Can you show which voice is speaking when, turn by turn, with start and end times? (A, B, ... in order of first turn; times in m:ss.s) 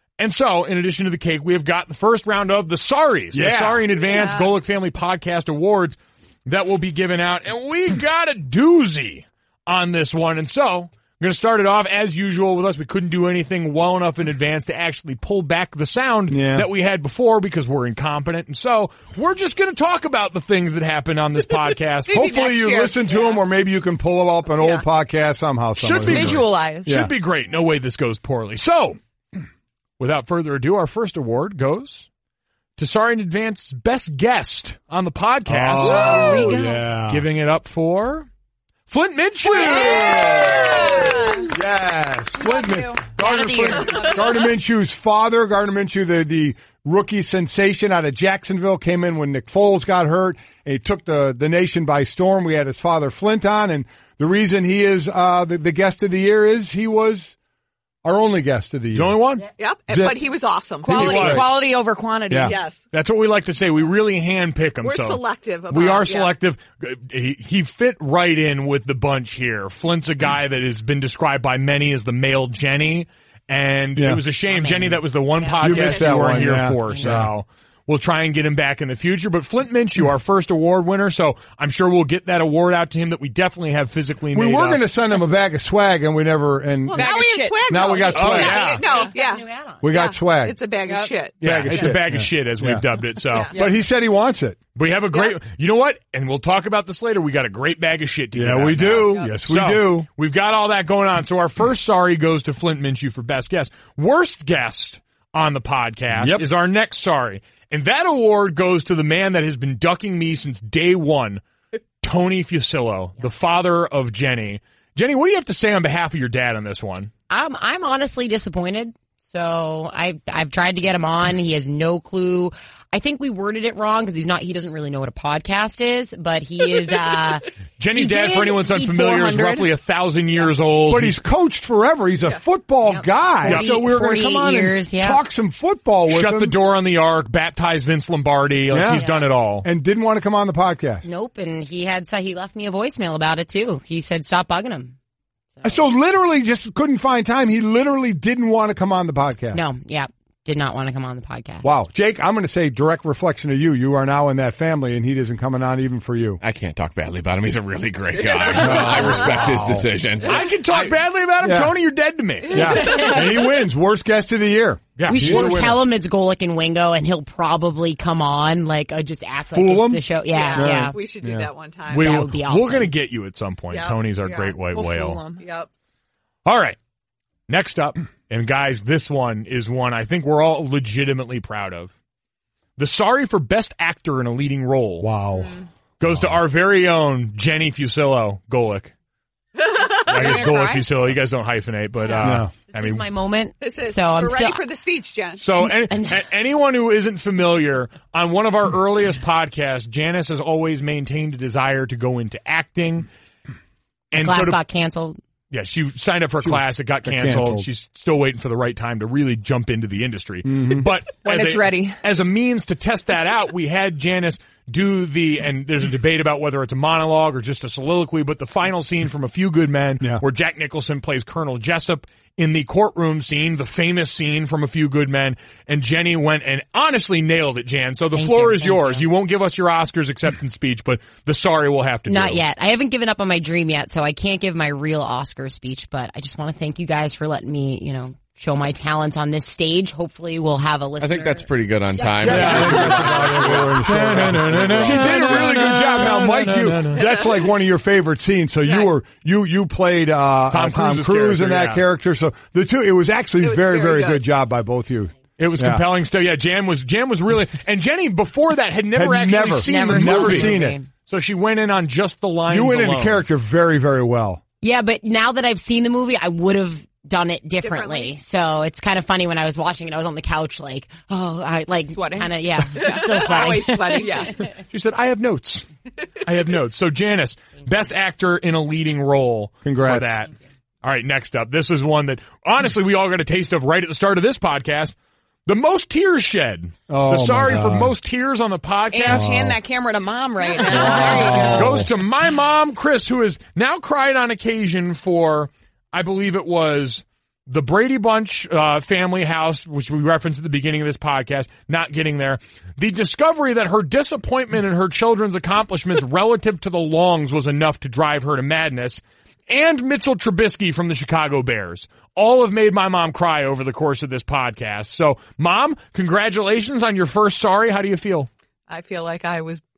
0:00.2-0:22.4 A
0:03.3-0:03.9 B
0:04.1-0:04.5 C
0:16.3-0:16.7 B
0:22.1-0:23.4 D
0:22.1-0:27.1 B
0:24.6-0:24.8 D
0:25.8-0:29.0 A
0:26.0-0:26.9 C
0:30.0-0:32.1 A
0:32.8-0:38.3 A
0:35.5-0:37.2 B
0:35.8-0:36.8 E
0:35.9-0:36.5 C
0:38.9-0:40.5 A
0:39.6-0:41.5 C
0:39.7-0:57.3 B
0:40.1-0:41.4 D
0:42.4-0:44.3 C
0:43.2-0:44.2 E
0:58.0-0:59.2 B
0:58.9-0:59.5 A
0:59.6-1:01.3 D
0:59.9-1:00.2 B
1:00.8-1:02.6 C
1:00.9-1:01.5 B
1:00.9-1:01.5 A
1:02.3-1:02.5 B
1:02.4-1:02.8 D
1:02.9-1:24.8 A
1:04.8-1:06.3 D
1:14.0-1:14.2 B
1:14.5-1:17.1 E
1:15.6-1:17.3 B
1:24.3-1:28.7 B
1:26.8-1:32.0 D
1:26.9-1:29.1 C
1:28.1-1:28.8 A
1:28.6-1:29.8 E
1:29.8-1:30.6 B
1:30.8-1:31.1 C
1:31.4-1:33.5 A
1:31.4-1:32.8 B
1:33.3-1:33.7 D
1:33.5-1:34.6 B
1:34.7-1:51.4 A
1:38.3-1:40.1 B
1:46.1-1:46.5 B
1:52.0-1:57.1 A
1:57.3-2:09.7 E
2:07.8-2:11.2 A
2:10.9-2:16.6 B
2:12.8-2:15.2 E
2:13.4-2:13.7 A
2:16.1-2:19.7 A
2:18.7-2:19.0 B
2:18.9-2:19.2 E
2:19.6-2:21.0 B
2:21.0-2:24.9 E
2:25.5-2:25.8 E
2:25.6-2:29.6 B
2:29.5-2:31.7 E
2:31.6-2:36.4 B
2:36.4-2:40.9 F
2:38.4-2:38.9 D
2:38.6-2:39.9 B
2:38.6-2:39.6 A
2:40.2-2:43.0 A
2:41.4-2:41.7 B
2:42.5-2:45.8 B
2:45.0-2:45.7 A
2:45.0-2:51.0 E
2:49.5-2:51.5 B
2:50.3-2:52.2 D
2:51.9-2:55.2 A
2:51.9-2:52.9 E
2:53.7-2:54.6 D
2:54.7-2:55.4 C
2:55.4-2:55.7 D
2:56.4-2:56.8 A
2:57.5-3:01.9 A
3:02.8-3:05.1 A
3:05.0-3:06.4 B
3:06.0-3:08.9 A
3:09.6-3:10.7 D
3:10.0-3:13.0 A
3:10.1-3:10.8 C
3:12.1-3:14.6 E
3:12.2-3:12.5 B
3:13.6-3:15.4 D
3:15.4-3:23.1 A
3:24.1-3:24.6 A
3:24.1-3:25.2 E
3:25.5-3:52.4 A
3:26.4-3:27.7 B
3:30.4-3:30.9 B
3:31.2-3:32.0 C
3:48.1-3:49.1 E
3:52.1-4:01.5 E
4:01.0-4:05.1 F
4:02.0-4:03.4 E
4:02.2-4:07.1 A
4:02.2-4:15.8 B
4:07.0-4:07.3 D
4:10.5-4:11.8 A
4:13.4-4:14.2 D
4:15.4-4:23.2 A
4:18.9-4:20.8 B
4:19.6-4:20.9 E
4:22.5-4:24.4 B
4:24.6-4:34.3 E
4:27.6-4:28.1 D
4:31.9-4:33.4 C
4:32.8-4:34.4 D
4:33.9-4:34.3 C
4:34.7-4:35.7 A
4:36.2-4:40.3 A
4:39.6-4:40.1 B
4:40.8-4:44.9 A
4:45.4-4:49.3 A
4:46.9-4:47.9 B
4:48.9-4:51.7 C
4:49.1-4:49.6 B
4:50.7-4:51.7 E
4:50.7-4:51.9 B
4:51.0-5:18.3 A
5:18.7-5:19.6 D